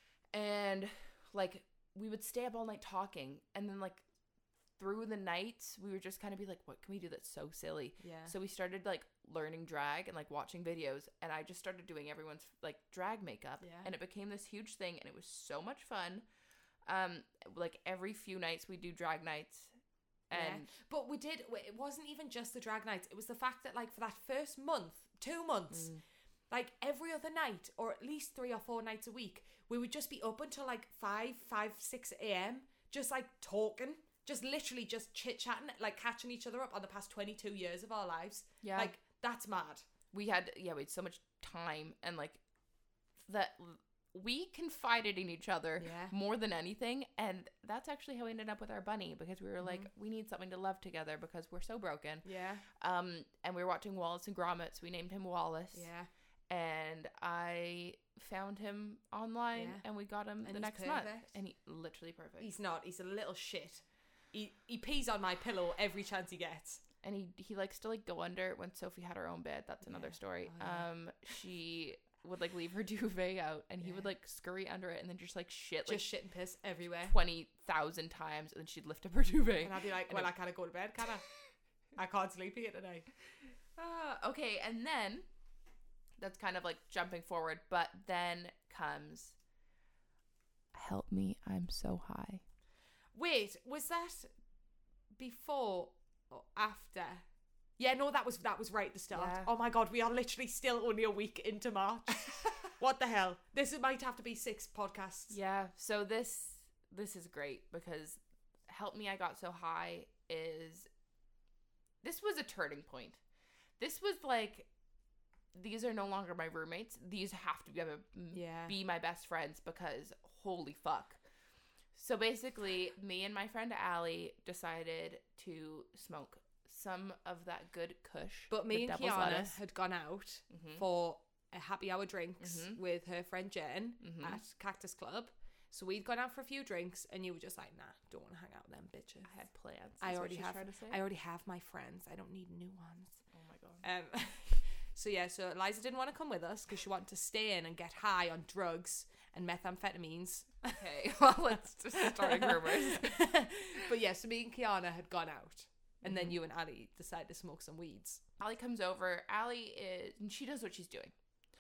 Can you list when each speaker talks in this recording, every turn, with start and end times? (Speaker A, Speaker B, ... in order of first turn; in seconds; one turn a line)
Speaker A: 0.3-4.0
Speaker A: 4.8-16.2
Speaker B: 8.0-8.3
Speaker B: 13.6-13.9
Speaker A: 16.9-19.7
Speaker A: 20.3-20.7
Speaker B: 20.3-25.9
Speaker A: 25.7-26.0
Speaker B: 26.5-39.8
Speaker A: 38.6-38.9
Speaker A: 40.1-42.4
Speaker A: 43.2-55.9
Speaker B: 45.8-46.1
Speaker B: 49.6-49.9
Speaker B: 52.2-52.6
Speaker B: 55.7-56.1
Speaker A: 56.5-62.5
Speaker B: 59.5-59.8
Speaker B: 60.4-61.3
Speaker B: 62.4-66.8
Speaker A: 67.0-76.1
Speaker B: 69.8-70.9
Speaker B: 75.8-77.1
Speaker A: 77.0-80.3
Speaker B: 79.6-81.2
Speaker B: 82.0-83.1
Speaker A: 83.8-85.3
Speaker A: 86.2-89.3
Speaker A: 90.7-92.4
Speaker B: 93.1-94.3
Speaker B: 95.2-97.2
Speaker B: 97.8-105.3
Speaker A: 99.1-99.5
Speaker A: 105.3-110.9
Speaker A: 112.0-113.2
Speaker A: 113.8-114.7
Speaker A: 115.5-121.2
Speaker B: 118.3-118.7
Speaker A: 121.9-129.6
Speaker B: 128.5-139.3
Speaker A: 130.5-130.8
Speaker A: 132.4-132.8
Speaker A: 134.0-134.4
Speaker A: 139.3-141.0
Speaker B: 140.0-143.2
Speaker A: 143.3-143.8
Speaker B: 143.8-150.8
Speaker A: 150.7-153.3
Speaker B: 151.9-158.2
Speaker A: 156.0-156.3
Speaker A: 158.4-161.1